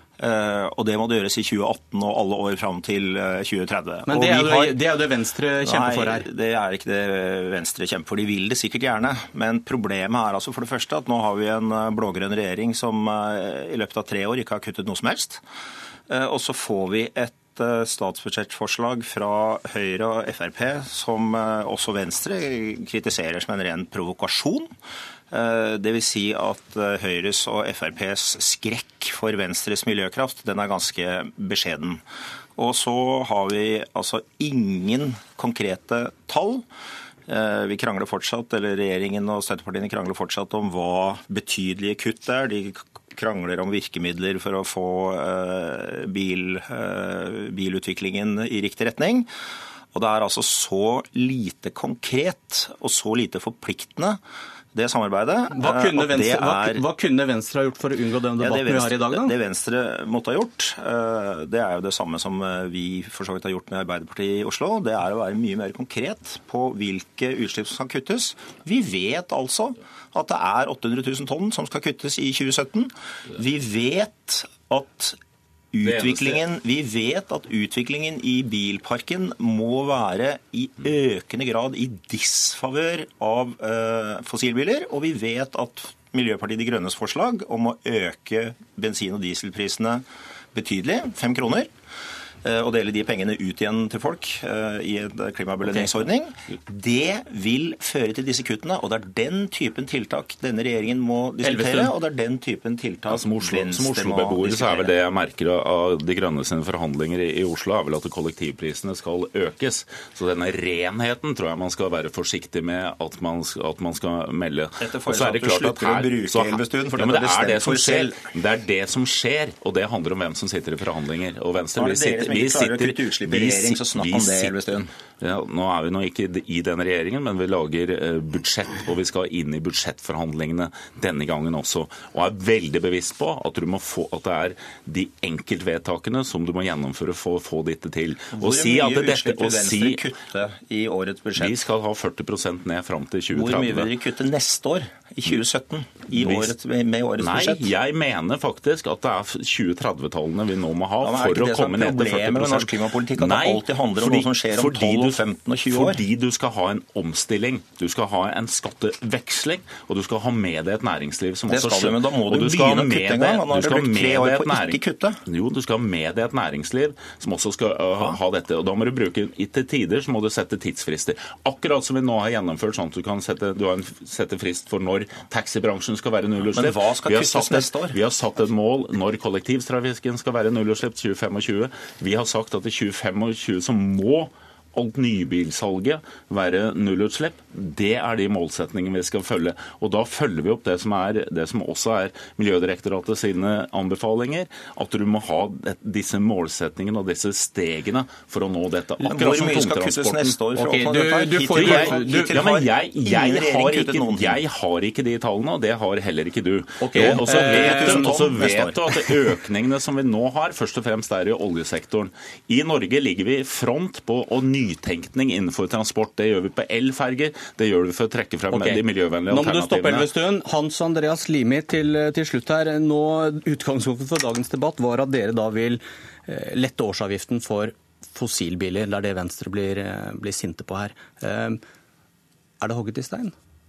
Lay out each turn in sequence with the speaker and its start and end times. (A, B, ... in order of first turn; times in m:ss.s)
0:00.2-0:04.8 A
0:04.1-0:06.3 B
0:05.6-0:15.4 A
0:16.1-0:24.7 A
0:25.3-0:32.0 A
0:32.6-0:36.6 A
0:37.3-0:49.3 A
0:49.9-0:54.2 A
0:54.7-0:56.8 A
0:55.5-0:59.3 B
0:58.4-1:15.2 A
1:15.7-1:31.7 A
1:15.8-1:16.5 C
1:32.4-1:44.9 A
1:41.4-1:41.9 B
1:43.1-2:04.6 C
1:54.8-1:58.3 A
2:01.8-2:04.9 A
2:05.2-2:20.1 C
2:18.3-2:21.6 A
2:21.4-2:24.0 C
2:23.3-2:27.7 A
2:26.2-2:26.6 C
2:27.2-3:20.4 C
2:31.0-2:36.0 A
2:41.5-2:45.2 A
2:56.5-2:58.0 A
3:19.0-3:24.4 A
3:20.6-3:22.4 B
3:21.5-3:40.1 C
3:26.8-3:28.2 B
3:27.0-3:28.8 A
3:38.5-3:51.6 B
3:52.6-3:53.3 B